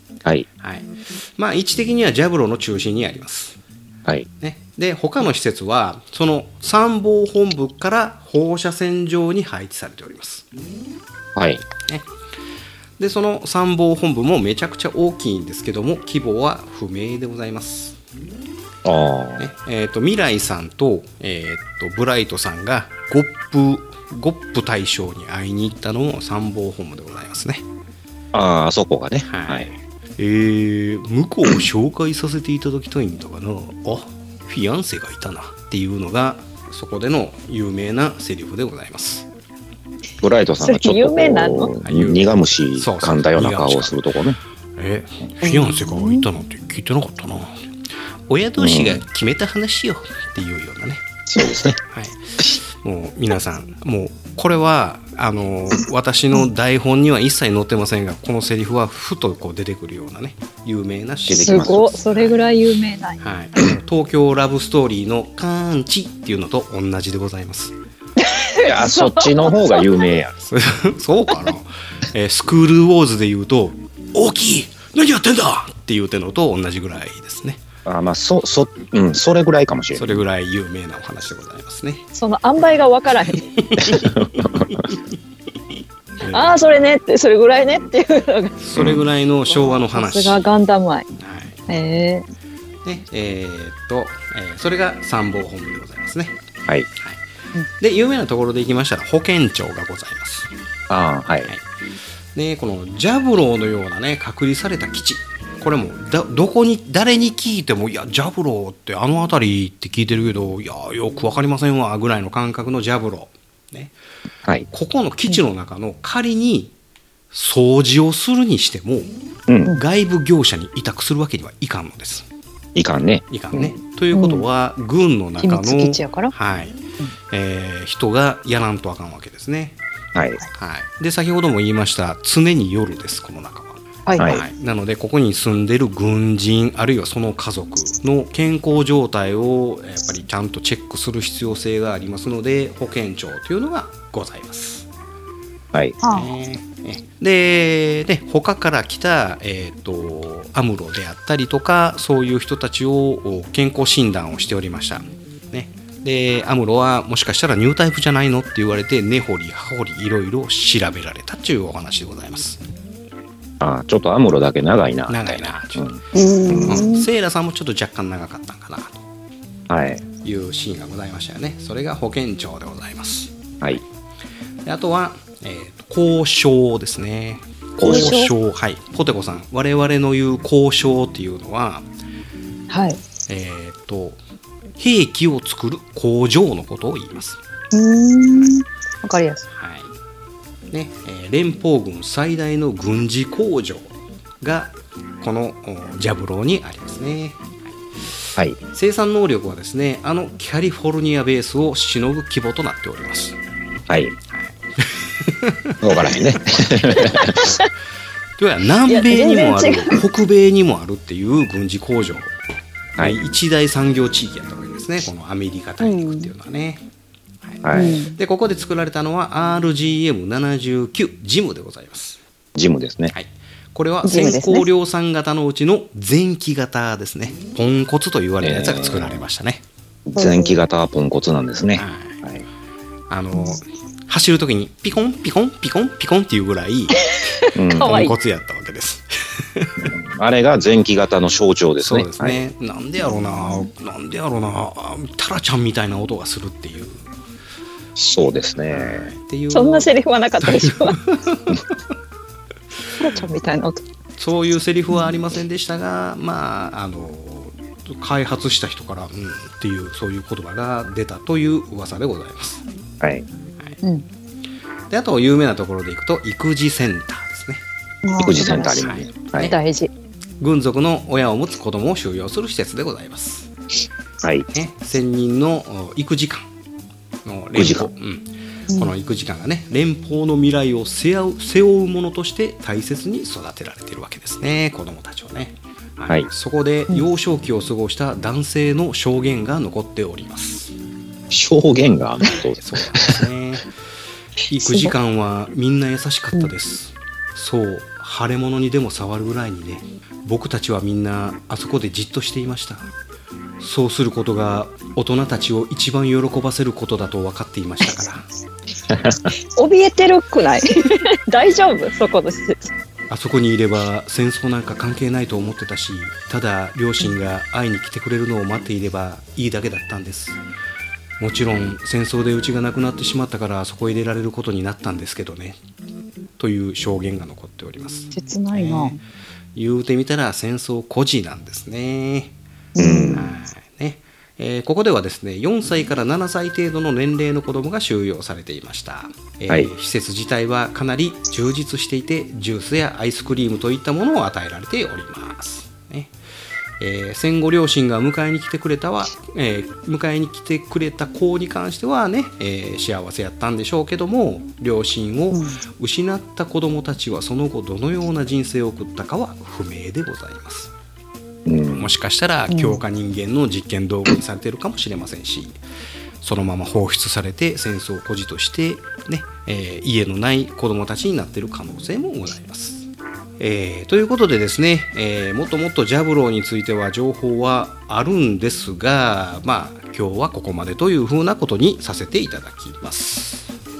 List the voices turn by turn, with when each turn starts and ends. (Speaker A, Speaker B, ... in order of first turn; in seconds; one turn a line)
Speaker A: 0.6-3.6
Speaker A: 4.4-10.4
Speaker B: 11.3-11.7
Speaker A: 13.0-18.0
Speaker B: 18.8-19.5
Speaker A: 19.4-27.6
Speaker B: 28.3-29.7
Speaker A: 29.3-39.3
Speaker B: 40.2-44.4
Speaker C: 40.6-41.7
Speaker A: 41.8-44.0
Speaker A: 44.8-47.5
Speaker C: 45.4-46.2
Speaker A: 48.3-51.0
Speaker B: 48.6-49.0
Speaker B: 51.3-51.8
Speaker A: 51.9-62.4
Speaker B: 61.3-61.9
Speaker C: 61.3-63.7
Speaker A: 63.2-67.7
Speaker C: 68.2-70.1
Speaker B: 68.6-70.3
Speaker A: 70.4-77.6
Speaker B: 77.8-80.2
Speaker A: 79.9-82.0
Speaker C: 82.1-83.5
Speaker A: 83.6-85.0
Speaker B: 83.8-84.8
Speaker A: 86.2-86.6
Speaker C: 86.3-88.6
Speaker A: 88.6-90.4
Speaker B: 88.8-89.0
Speaker C: 89.5-91.1
Speaker A: 91.2-91.6
Speaker C: 91.7-92.2
Speaker A: 92.8-96.4
Speaker A: 97.8-100.5
Speaker B: 100.9-101.5
Speaker A: 102.3-113.9
Speaker A: 114.7-116.7
Speaker A: 117.3-119.1
Speaker B: 119.5-119.7
Speaker A: 119.7-122.2
Speaker B: 122.7-123.8
Speaker A: 123.3-126.8
Speaker C: 124.1-124.5
Speaker C: 125.4-126.3
Speaker A: 127.3-129.8
Speaker B: 130.1-130.4
Speaker A: 130.6-144.9
Speaker C: 134.1-134.3
Speaker B: 134.2-134.4
Speaker C: 146.0-146.3
Speaker A: 146.1-162.6
Speaker B: 163.6-166.8
Speaker A: 165.1-165.9
Speaker C: 166.1-167.1
Speaker A: 166.7-169.0
Speaker B: 169.7-170.0
Speaker A: 170.2-173.3
Speaker A: 174.7-181.8
Speaker B: 177.8-178.2
Speaker C: 177.8-178.3
Speaker C: 182.7-183.0
Speaker A: 183.3-184.2
Speaker A: 184.8-187.4
Speaker C: 187.7-189.4
Speaker A: 189.5-189.9
Speaker A: 190.7-197.7
Speaker A: 198.7-203.4
Speaker B: 203.9-204.1
Speaker A: 204.3-205.7
Speaker B: 205.8-207.5
Speaker A: 206.6-207.4
Speaker A: 208.4-212.3
Speaker C: 208.9-210.0
Speaker A: 213.0-216.8
Speaker C: 215.8-216.3
Speaker A: 217.4-222.2
Speaker B: 217.6-217.9
Speaker C: 217.7-218.1
Speaker B: 222.6-223.1
Speaker A: 223.1-229.6
Speaker C: 224.0-224.7
Speaker B: 228.4-229.2
Speaker B: 230.1-232.4
Speaker C: 230.2-230.6
Speaker A: 231.8-232.2
Speaker A: 233.1-237.1
Speaker C: 233.3-233.6
Speaker B: 237.6-238.0
Speaker C: 237.7-238.1
Speaker A: 237.8-239.9
Speaker B: 239.8-242.4
Speaker A: 241.8-247.1
Speaker B: 247.9-249.1
Speaker A: 248.7-249.9
Speaker C: 249.5-251.0
Speaker A: 250.4-251.6
Speaker C: 253.0-253.8
Speaker A: 254.2-262.6
Speaker A: 264.9-267.6
Speaker C: 268.0-269.9
Speaker B: 268.2-269.5
Speaker A: 268.8-269.5
Speaker A: 270.4-273.5
Speaker B: 274.2-274.4
Speaker A: 274.5-276.4
Speaker A: 277.2-290.7
Speaker B: 277.6-277.9
Speaker B: 291.3-293.2
Speaker A: 292.6-293.7
Speaker A: 294.5-302.9
Speaker C: 294.6-294.9
Speaker A: 303.6-308.2
Speaker B: 308.9-309.2
Speaker C: 309.6-312.7
Speaker A: 313.1-320.4
Speaker A: 321.2-325.6
Speaker A: 326.4-329.0
Speaker C: 328.1-329.0
Speaker A: 329.5-332.3
Speaker C: 332.7-333.2
Speaker B: 332.8-333.3
Speaker A: 333.1-346.1
Speaker A: 346.8-360.7
Speaker C: 355.3-355.6
Speaker B: 361.4-361.9
Speaker A: 361.8-365.6
Speaker C: 362.5-362.8
Speaker A: 366.2-372.8
Speaker A: 373.4-383.5